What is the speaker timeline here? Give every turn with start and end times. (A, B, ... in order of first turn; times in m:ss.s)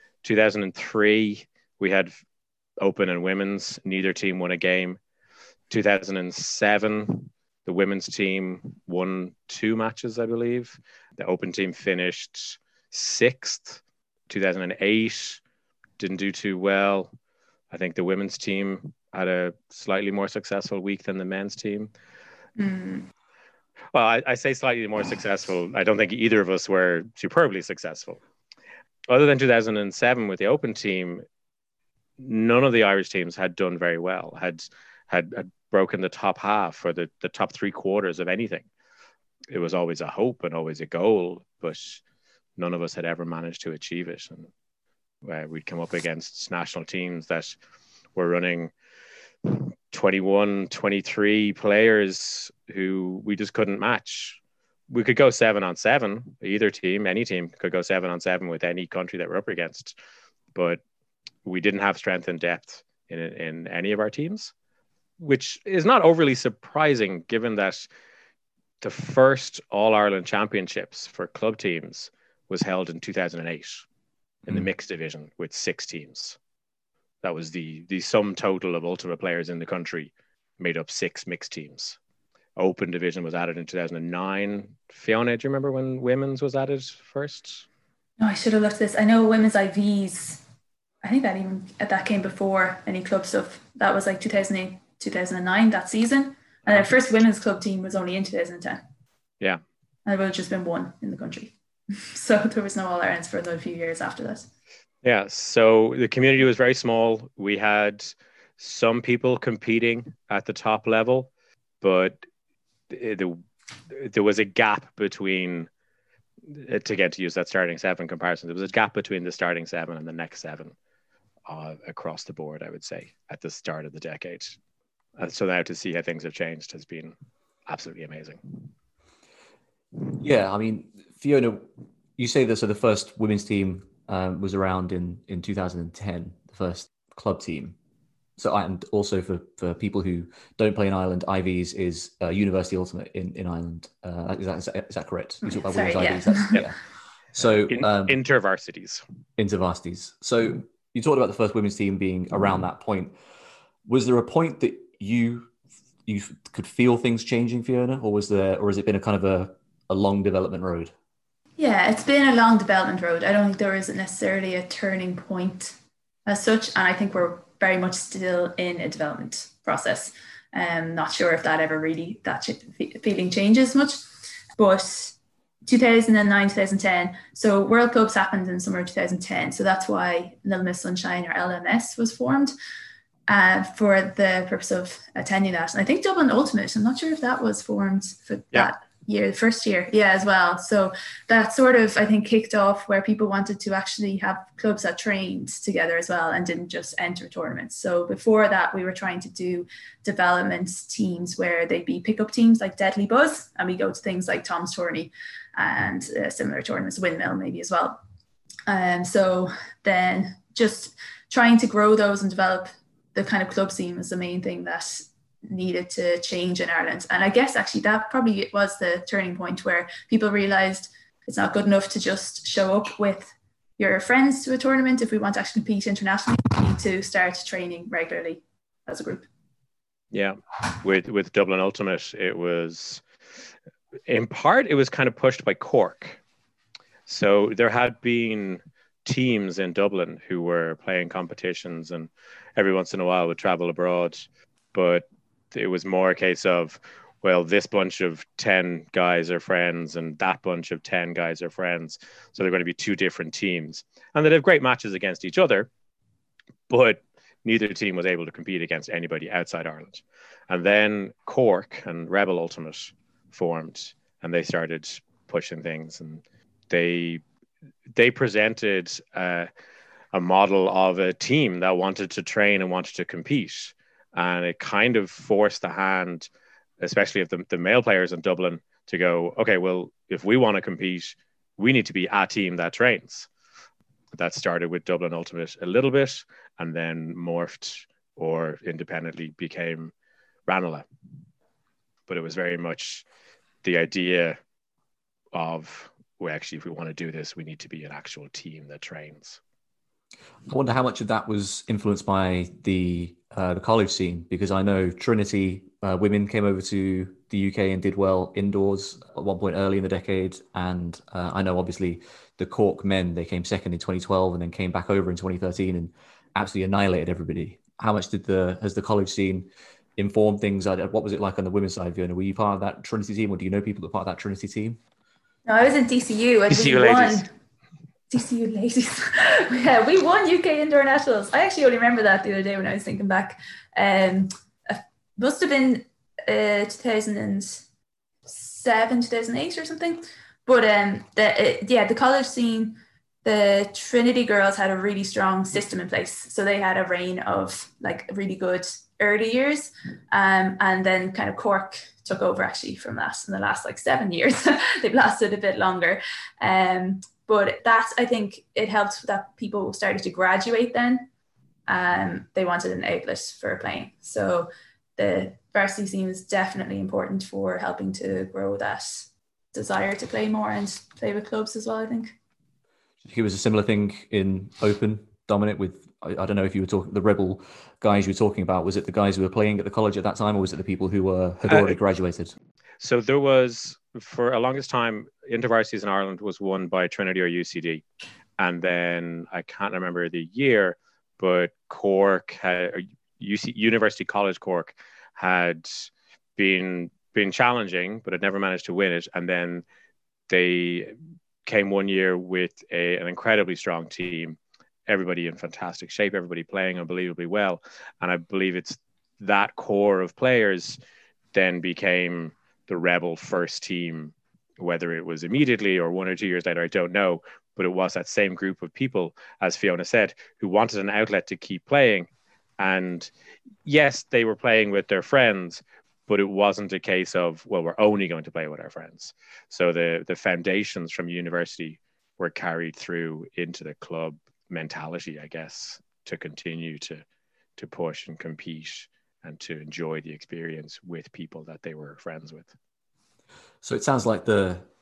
0:00.2-0:02.1 A
0:02.8-0:05.0 A
0:05.7-0:15.4 A
0:16.0-0:17.1 A
0:17.7-0:21.9 A
0:22.6-0:23.1 B
0:23.9-0:28.2 A
0:29.1-0:31.2 A
0:32.2-0:38.7 A
0:39.5-0:42.0 A
0:42.6-0:44.5 A
0:45.2-0:47.6 A
0:48.2-0:48.7 A
0:49.4-0:54.4 A
0:54.9-0:59.9 A
1:00.5-1:00.8 A
1:01.4-1:04.5 A
1:05.2-1:07.9 A
1:08.8-1:13.8 A
1:14.4-1:16.4 A
1:17.2-1:22.0 A
1:22.6-1:27.6 A
1:28.2-1:30.4 B
1:31.0-1:38.8 B
1:40.0-1:44.5 B
1:45.0-1:52.2 A
1:52.9-1:53.4 A
1:53.9-1:55.7 A
1:56.5-2:00.7 A
2:01.5-2:04.6 A
2:05.2-2:07.1 A
2:07.6-2:08.7 A
2:10.2-2:17.8 C
2:18.4-2:26.8 C
2:25.4-2:26.6 B
2:27.3-2:28.2 C
2:27.4-2:29.0 A
2:29.4-2:33.1 C
2:33.8-2:35.5 C
2:36.0-2:40.9 C
2:41.6-2:54.0 B
2:54.6-3:02.5 B
3:03.3-3:28.0 B
3:28.7-3:49.3 B
3:50.1-3:53.0 A
3:54.1-3:56.2 A
3:57.1-4:15.7 A
4:16.7-4:27.2 A
4:27.9-4:29.5 A
4:30.1-4:36.3 A
4:36.8-4:43.3 A
4:44.1-4:49.9 A
4:50.5-4:50.8 A
4:52.1-4:53.0 A
4:53.6-4:54.4 A
4:55.3-4:59.4 A
5:00.5-5:24.8 C
5:25.5-5:27.3 B
5:26.5-5:27.2 A
5:28.1-5:37.6 B
5:38.3-6:01.0 B
6:01.7-6:12.1 B
6:13.0-6:22.3 C
6:21.5-6:21.8 A
6:22.8-6:27.8 A
6:28.4-6:39.6 A
6:40.3-6:40.9 A
6:41.4-6:50.8 A
6:51.3-7:03.1 A
7:03.6-7:17.0 A
7:17.6-7:22.5 A
7:23.6-7:24.6 C